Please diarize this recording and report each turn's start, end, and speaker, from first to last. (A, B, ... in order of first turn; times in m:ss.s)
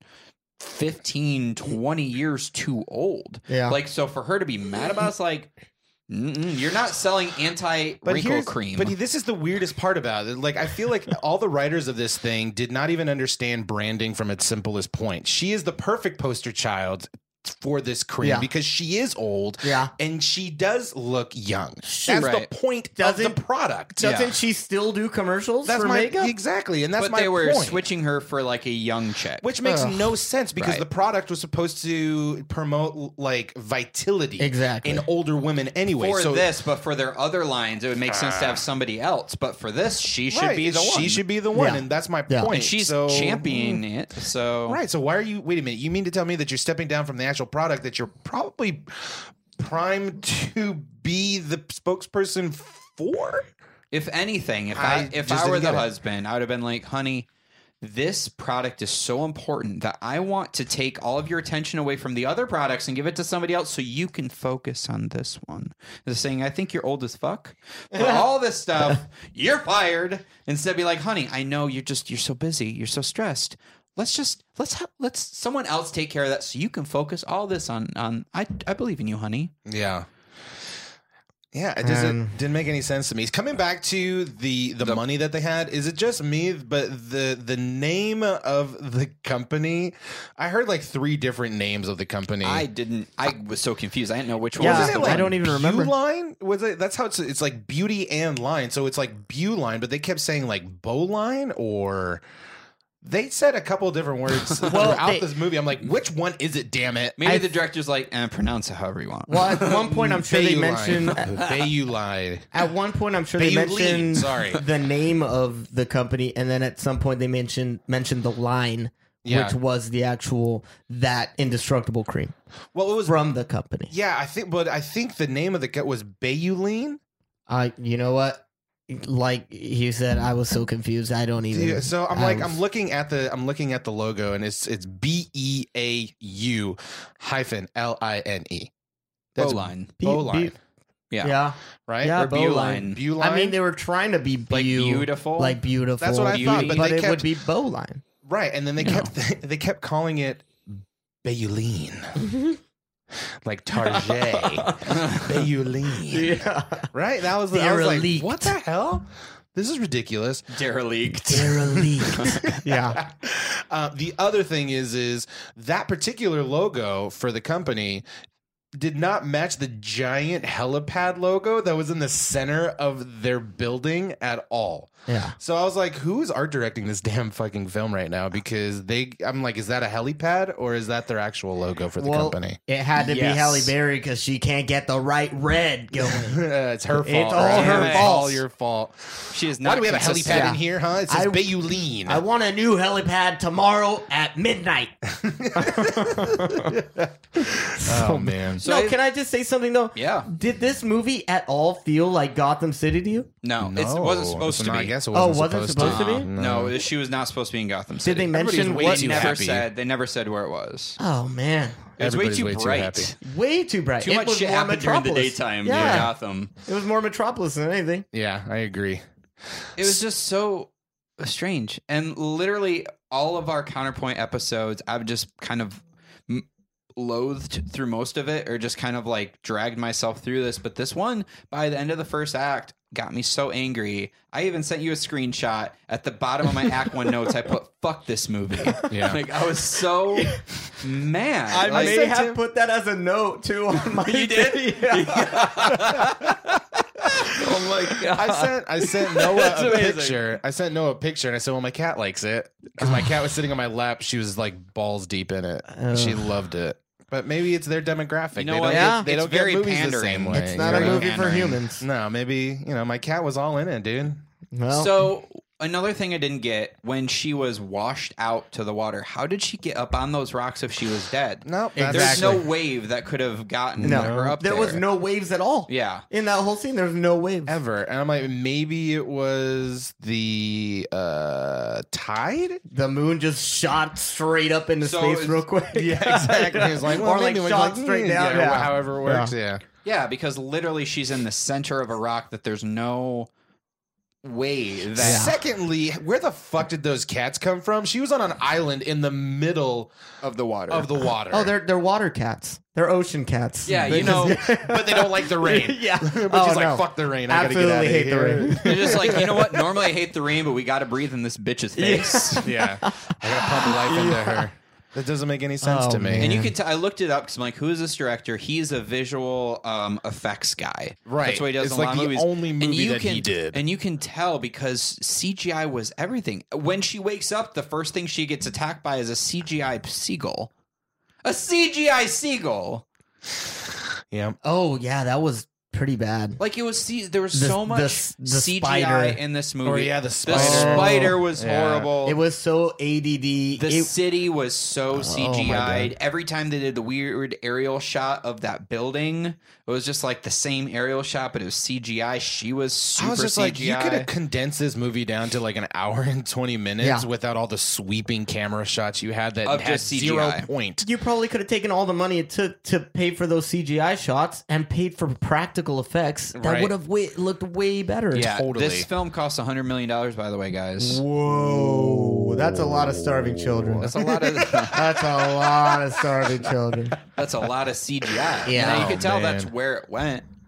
0:00.6-0:05.5 A
0:03.5-0:03.8 B
0:06.1-0:08.9 A
0:08.0-0:24.2 C
0:18.2-0:18.5 B
0:19.6-0:19.9 B
0:21.8-0:22.3 B
0:22.1-0:22.5 A
0:23.0-0:23.4 B
0:24.0-0:26.3 B
0:24.0-0:24.3 A
0:25.6-0:27.8 C
0:27.0-0:29.4 A
0:29.4-0:36.5 C
0:29.6-0:30.1 B
0:30.6-0:30.8 A
0:34.4-0:35.1 B
0:36.0-0:41.2 A
0:38.1-0:38.6 C
0:40.3-0:43.8 C
0:41.5-0:42.5 B
0:42.5-0:44.8 A
0:44.7-0:53.5 C
0:53.9-0:57.3 A
0:54.7-0:55.9 C
0:57.8-1:19.5 A
1:07.9-1:08.2 B
1:19.6-1:20.1 C
1:21.5-1:32.6 C
1:21.8-1:22.4 B
1:32.4-1:35.2 A
1:34.6-1:35.9 B
1:34.6-1:42.2 C
1:43.0-1:47.2 C
1:44.4-1:44.7 A
1:44.6-1:45.3 B
1:47.2-1:49.9 A
1:49.3-1:51.4 B
1:49.9-1:52.5 C
1:51.2-1:51.5 A
1:52.5-2:02.3 B
1:53.4-1:54.6 C
1:59.2-1:59.6 C
2:02.7-2:03.2 C
2:03.1-2:03.9 B
2:03.9-2:07.0 C
2:07.5-2:12.6 B
2:11.5-2:18.7 C
2:19.4-2:20.6 C
2:19.4-2:19.9 A
2:20.0-2:20.5 B
2:21.2-2:28.0 B
2:21.9-2:22.2 C
2:22.1-2:23.0 A
2:22.8-2:23.6 C
2:24.5-2:25.6 A
2:26.0-2:27.3 C
2:26.3-2:26.8 A
2:28.2-2:32.2 C
2:28.8-2:29.1 A
2:32.2-2:32.6 B
2:33.4-2:40.5 C
2:33.8-2:35.0 B
2:34.9-2:35.3 A
2:35.9-2:36.9 B
2:37.5-2:38.5 B
2:40.5-2:42.6 A
2:41.3-2:43.0 B
2:41.6-2:48.0 C
2:48.8-3:02.6 C
2:55.1-2:55.4 B
3:02.0-3:06.4 B
3:03.0-3:03.7 A
3:06.0-3:12.2 C
3:07.0-3:08.4 B
3:07.4-3:08.1 A
3:09.3-3:10.5 A
3:10.3-3:11.5 B
3:12.1-3:16.8 B
3:15.2-3:18.6 C
3:17.5-3:23.3 B
3:18.6-3:19.0 A
3:19.9-3:20.3 A
3:23.4-3:24.9 A
3:23.6-3:26.8 C
3:25.1-3:26.3 B
3:25.8-3:31.0 A
3:28.0-3:29.4 B
3:28.4-3:29.7 C
3:31.0-3:31.9 B
3:32.0-3:33.1 C
3:32.0-3:33.2 A
3:33.2-3:36.1 B
3:34.0-3:36.5 A
3:35.7-3:36.1 C
3:36.6-3:38.1 B
3:38.1-3:39.0 C
3:39.8-4:02.0 A
3:58.6-3:59.0 B
3:58.9-3:59.2 C
4:00.2-4:00.4 B
4:01.5-4:06.3 B
4:01.5-4:02.4 C
4:03.8-4:08.3 A
4:07.2-4:08.4 B
4:08.0-4:21.1 C
4:09.1-4:10.2 A
4:12.8-4:13.2 B
4:15.7-4:16.3 B
4:18.4-4:21.6 A
4:18.6-4:19.1 B
4:20.3-4:21.8 B
4:21.8-4:24.2 C
4:24.5-4:25.1 B
4:24.7-4:34.8 A
4:31.4-4:32.4 C
4:31.8-4:32.5 B
4:33.8-4:34.4 C
4:33.8-4:37.6 B
4:35.7-4:36.0 A
4:37.4-4:42.6 C
4:42.7-4:49.3 B
4:44.8-4:45.4 A
4:45.7-4:49.6 C
4:49.8-4:53.3 A
4:54.2-4:55.3 A
4:55.0-4:59.9 C
4:55.0-4:55.4 B
5:00.2-5:00.9 A
5:00.7-5:01.5 C
5:01.3-5:09.6 B
5:03.6-5:04.4 A
5:03.7-5:09.5 C
5:08.6-5:12.4 A
5:11.8-5:14.5 B
5:12.4-5:16.4 C
5:15.6-5:16.5 B
5:16.2-5:30.5 A
5:21.1-5:23.6 C
5:31.2-5:32.9 A
5:34.1-5:34.4 C
5:34.4-5:36.4 B
5:36.4-5:42.2 A
5:37.3-5:39.2 B
5:39.6-5:41.9 C
5:40.3-5:41.2 B
5:42.0-5:43.9 B
5:43.6-5:54.1 A
5:44.9-5:45.9 B
5:53.0-6:00.9 C
5:59.4-6:00.5 A
6:00.8-6:08.3 B
6:06.4-6:06.7 C
6:08.1-6:08.9 C
6:08.1-6:11.0 A
6:10.8-6:17.0 B
6:11.3-6:16.5 C
6:13.8-6:14.9 A
6:17.2-6:20.3 A
6:18.4-6:19.5 C
6:18.4-6:19.0 B